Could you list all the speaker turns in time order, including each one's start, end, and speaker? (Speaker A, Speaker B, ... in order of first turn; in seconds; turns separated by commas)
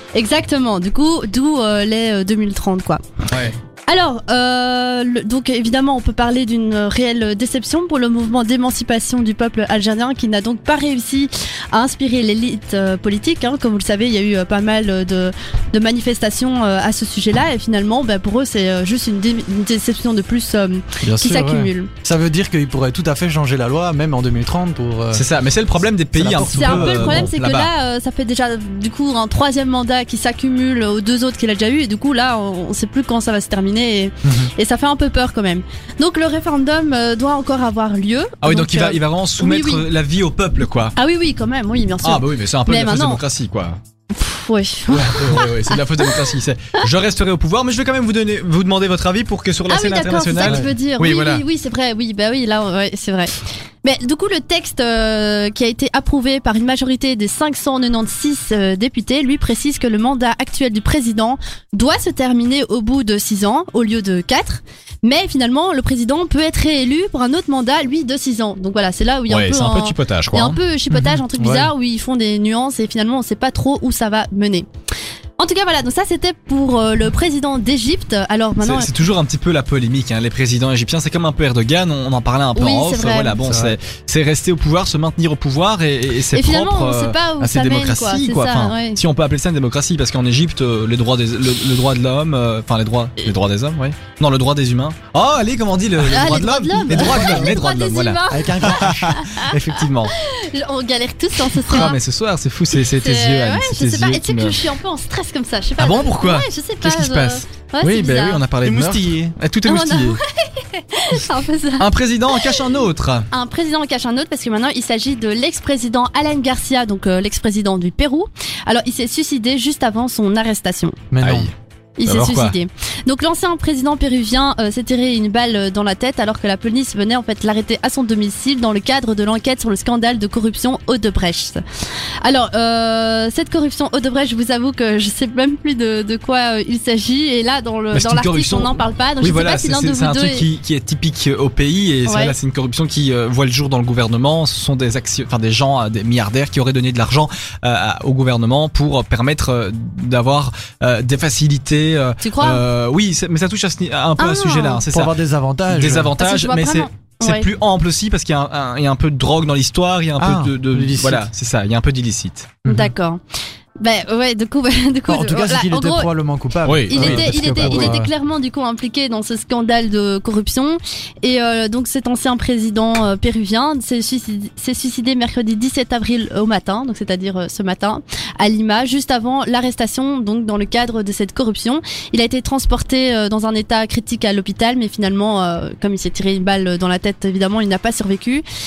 Speaker A: 0.1-3.0, Speaker B: 3.3-3.6, Speaker A: 3.9-21.9, Speaker C: 21.0-25.2, Speaker B: 25.1-27.7, Speaker C: 26.1-27.3, Speaker A: 26.5-39.8, Speaker C: 34.2-34.5, Speaker B: 38.4-41.0, Speaker A: 41.0-43.2, Speaker B: 42.0-43.8, Speaker A: 44.1-46.2, Speaker B: 44.9-51.4, Speaker A: 49.7-74.7, Speaker C: 50.4-50.7, Speaker B: 69.3-70.6, Speaker C: 70.9-71.7, Speaker A: 75.4-78.9, Speaker B: 78.6-100.1, Speaker A: 82.6-83.4, Speaker C: 83.4-83.8, Speaker A: 86.3-89.0, Speaker A: 96.0-99.5, Speaker C: 98.3-99.6, Speaker A: 100.1-102.0, Speaker B: 101.6-104.6, Speaker A: 103.0-108.4, Speaker B: 105.8-110.2, Speaker C: 108.6-109.3, Speaker A: 109.7-112.6, Speaker B: 111.8-113.3, Speaker A: 113.3-121.0, Speaker C: 121.1-121.5, Speaker B: 121.2-121.5, Speaker A: 122.0-131.6, Speaker B: 122.1-122.6, Speaker A: 132.2-140.5, Speaker B: 137.9-155.1, Speaker A: 142.1-142.3, Speaker A: 152.2-152.6, Speaker A: 154.2-154.8, Speaker C: 154.9-156.1, Speaker B: 155.7-162.7, Speaker A: 156.2-157.5, Speaker C: 160.2-161.3, Speaker C: 162.7-162.9, Speaker A: 162.7-163.2, Speaker A: 163.8-166.1, Speaker C: 165.1-168.1, Speaker B: 166.7-168.0, Speaker A: 166.9-188.4